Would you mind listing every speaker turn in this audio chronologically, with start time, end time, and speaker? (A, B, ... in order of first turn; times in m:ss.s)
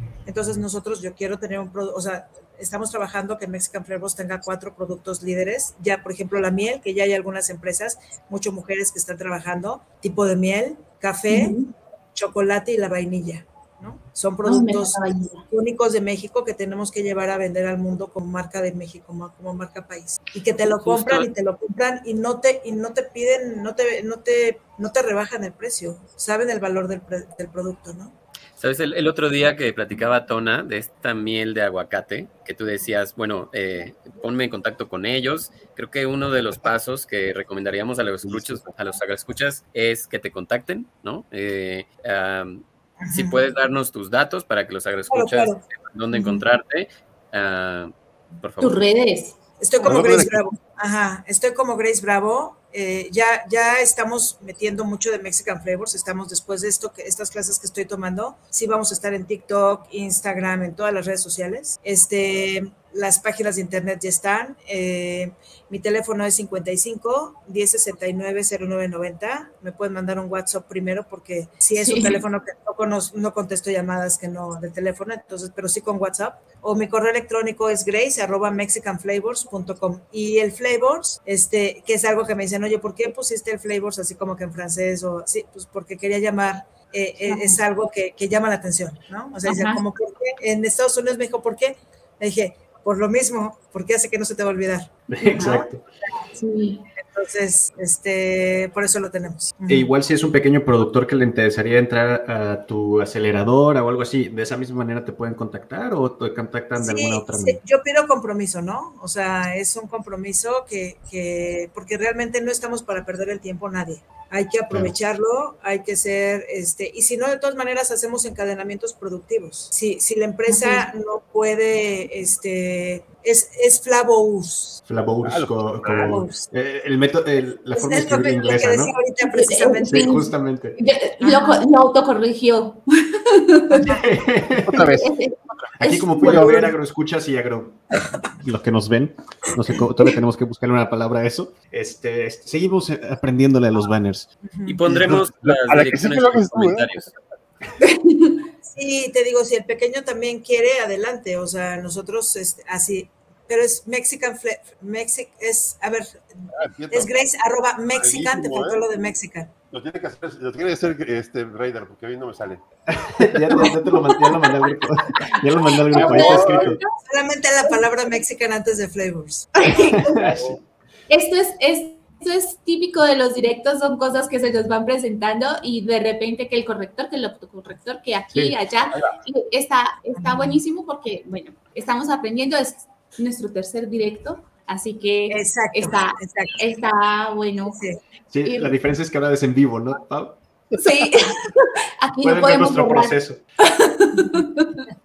0:00.2-0:11.6 A
0:11.3-0:11.7 B
0:12.1-0:28.1 A
0:14.4-0:15.5 B
0:20.8-0:21.3 C
0:28.6-0:48.8 C
0:38.2-0:38.6 D
0:43.0-0:43.4 A
0:45.1-0:45.6 A
0:46.1-0:46.4 B
0:48.6-0:49.3 B
0:49.6-1:34.9 A
0:49.8-0:50.4 D
1:11.8-1:12.2 B
1:27.2-1:27.6 B
1:29.4-1:29.8 B
1:35.1-1:35.8 E
1:35.3-1:35.7 B
1:36.3-1:36.8 B
1:37.0-1:39.9 A
1:39.7-1:47.6 E
1:46.8-2:04.8 A
2:00.5-2:00.9 B
2:04.8-2:09.0 E
2:05.2-2:06.1 D
2:06.0-2:06.5 A
2:07.7-2:10.1 A
2:09.2-2:13.9 B
2:09.9-2:10.8 E
2:11.2-2:11.6 A
2:13.7-2:14.1 A
2:13.8-2:14.9 E
2:14.7-2:15.1 D
2:14.8-2:16.7 B
2:15.8-2:17.8 E
2:16.2-2:16.7 A
2:18.4-2:24.3 E
2:24.4-2:24.8 A
2:24.6-2:27.1 C
2:24.8-2:27.1 D
2:27.8-2:28.4 B
2:28.6-2:39.5 A
2:36.5-2:37.1 D
2:37.9-2:38.8 D
2:39.7-2:42.6 D
2:42.9-2:46.8 E
2:43.5-2:44.8 B
2:45.3-2:46.9 B
2:45.9-2:46.6 D
2:47.0-2:49.5 A
2:49.6-2:50.3 B
2:49.6-2:50.6 E
2:51.1-3:07.8 B
2:58.3-2:58.6 E
3:00.2-3:00.6 A
3:05.3-3:06.6 A
3:07.6-3:08.0 A
3:08.3-3:10.4 E
3:08.4-3:08.7 B
3:10.8-3:14.9 B
3:12.2-3:13.4 E